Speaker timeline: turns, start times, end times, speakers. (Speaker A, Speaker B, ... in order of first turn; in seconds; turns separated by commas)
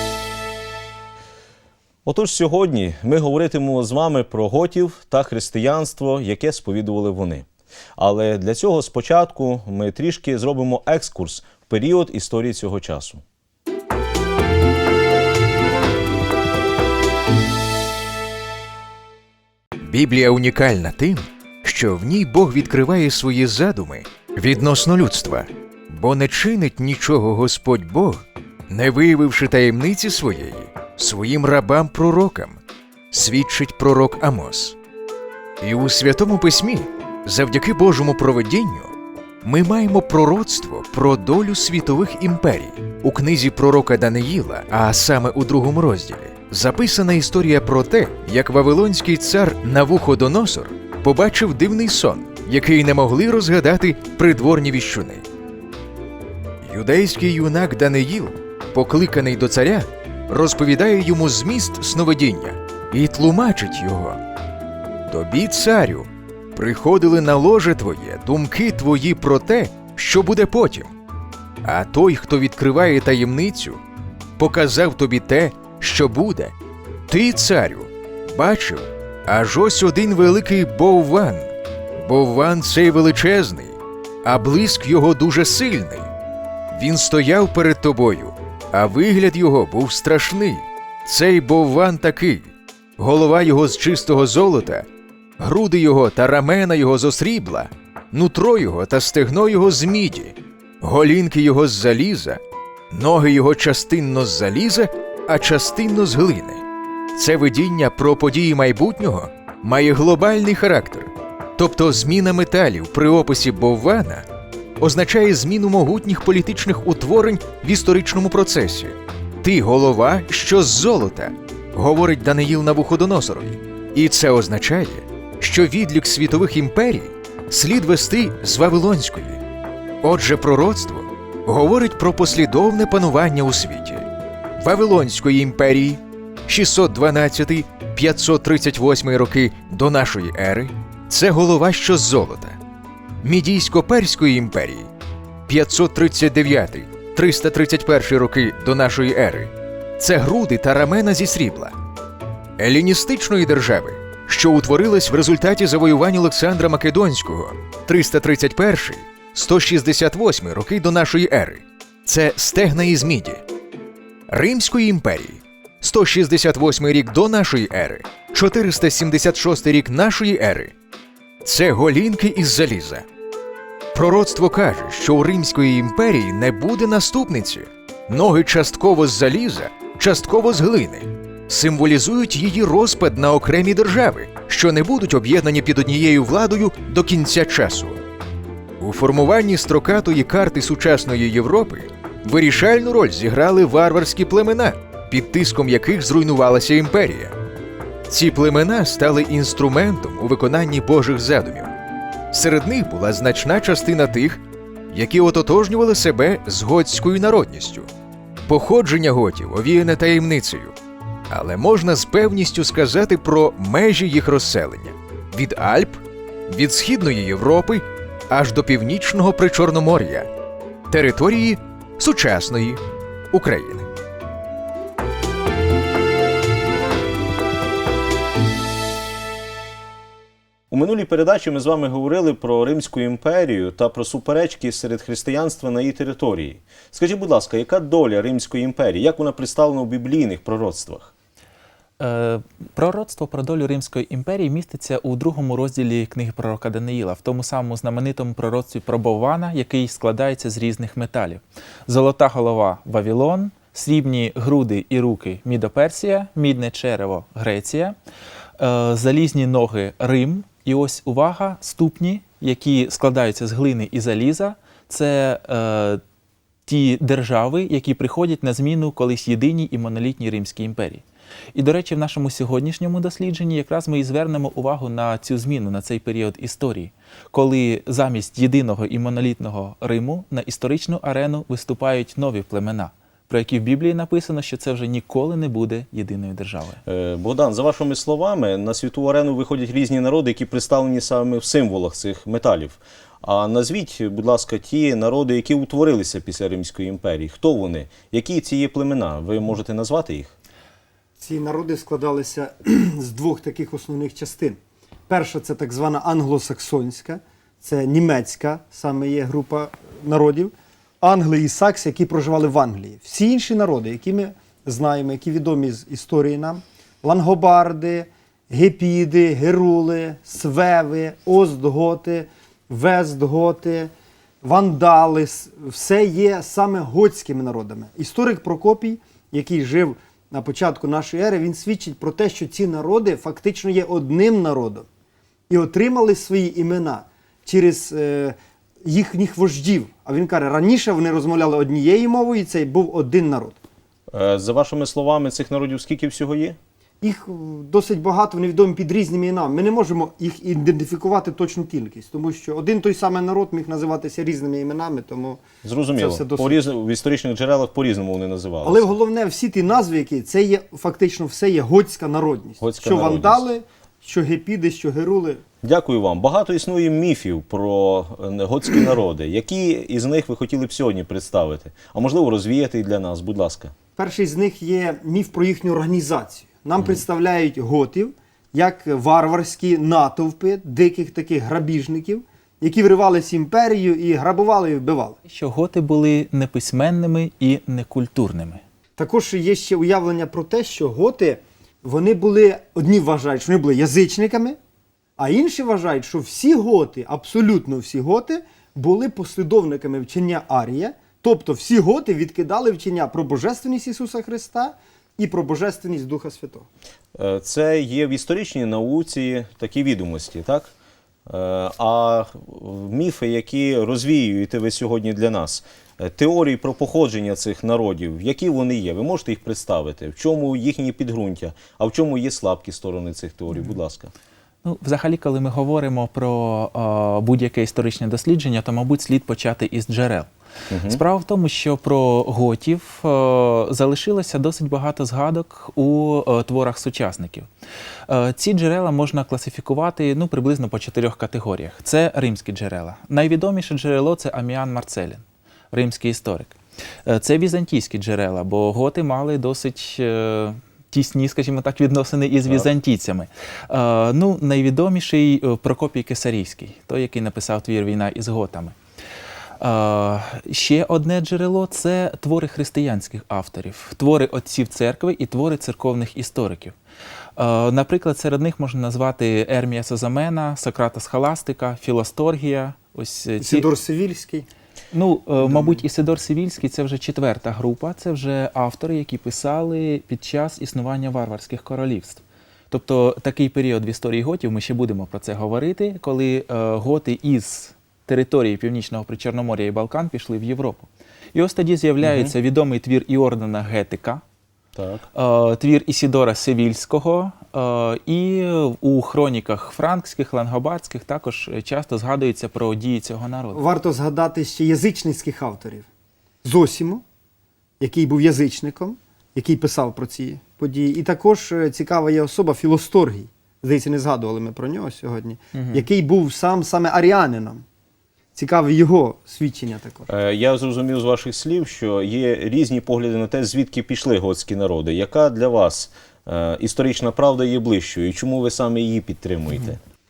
Speaker A: 2.0-13.2, Speaker B: 19.8-32.6, Speaker B: 33.1-34.8, Speaker B: 35.6-38.9, Speaker B: 39.4-55.2, Speaker B: 56.6-64.2, Speaker B: 65.1-70.9, Speaker B: 71.6-73.8, Speaker B: 74.4-76.5, Speaker B: 77.1-86.1, Speaker B: 86.7-94.8, Speaker B: 95.4-102.4, Speaker B: 102.9-106.6, Speaker B: 107.1-114.2, Speaker B: 114.8-129.4, Speaker B: 130.0-134.1, Speaker B: 134.6-142.6, Speaker B: 143.2-144.9, Speaker B: 145.5-151.8, Speaker B: 152.6-163.4, Speaker B: 164.3-170.7, Speaker B: 171.4-173.0, Speaker B: 173.9-188.0, Speaker B: 188.8-197.3, Speaker B: 198.1-201.7, Speaker B: 202.3-207.9, Speaker B: 208.5-210.7, Speaker B: 211.3-220.3, Speaker B: 220.9-222.8, Speaker B: 223.3-223.9, Speaker A: 230.7-241.1, Speaker C: 242.0-257.9, Speaker C: 258.6-266.0, Speaker C: 266.6-271.0, Speaker C: 271.5-286.8, Speaker A: 286.9-300.3, Speaker D: 301.2-323.9, Speaker D: 324.4-334.9, Speaker D: 335.5-343.6, Speaker A: 344.1-346.6, Speaker D: 347.0-355.4, Speaker A: 355.6-358.9, Speaker D: 355.9-356.6, Speaker D: 358.6-365.4, Speaker A: 362.6-363.4, Speaker A: 365.6-373.7, Speaker D: 373.9-385.2, Speaker C: 385.3-388.6, Speaker D: 389.0-394.6, Speaker D: 395.2-406.7, Speaker A: 407.1-410.7, Speaker A: 411.3-424.1, Speaker C: 424.6-430.3, Speaker A: 430.7-431.0, Speaker C: 430.8-437.5, Speaker C: 438.1-458.7, Speaker C: 459.6-466.7, Speaker C: 467.4-473.7, Speaker D: 473.4-474.5, Speaker C: 474.9-494.2, Speaker D: 475.4-475.8, Speaker A: 492.0-492.3, Speaker A: 494.8-495.1, Speaker C: 495.1-503.6, Speaker D: 503.5-505.9, Speaker D: 506.4-507.0, Speaker D: 507.8-517.6, Speaker C: 515.5-515.8, Speaker D: 518.3-520.1, Speaker A: 520.1-529.8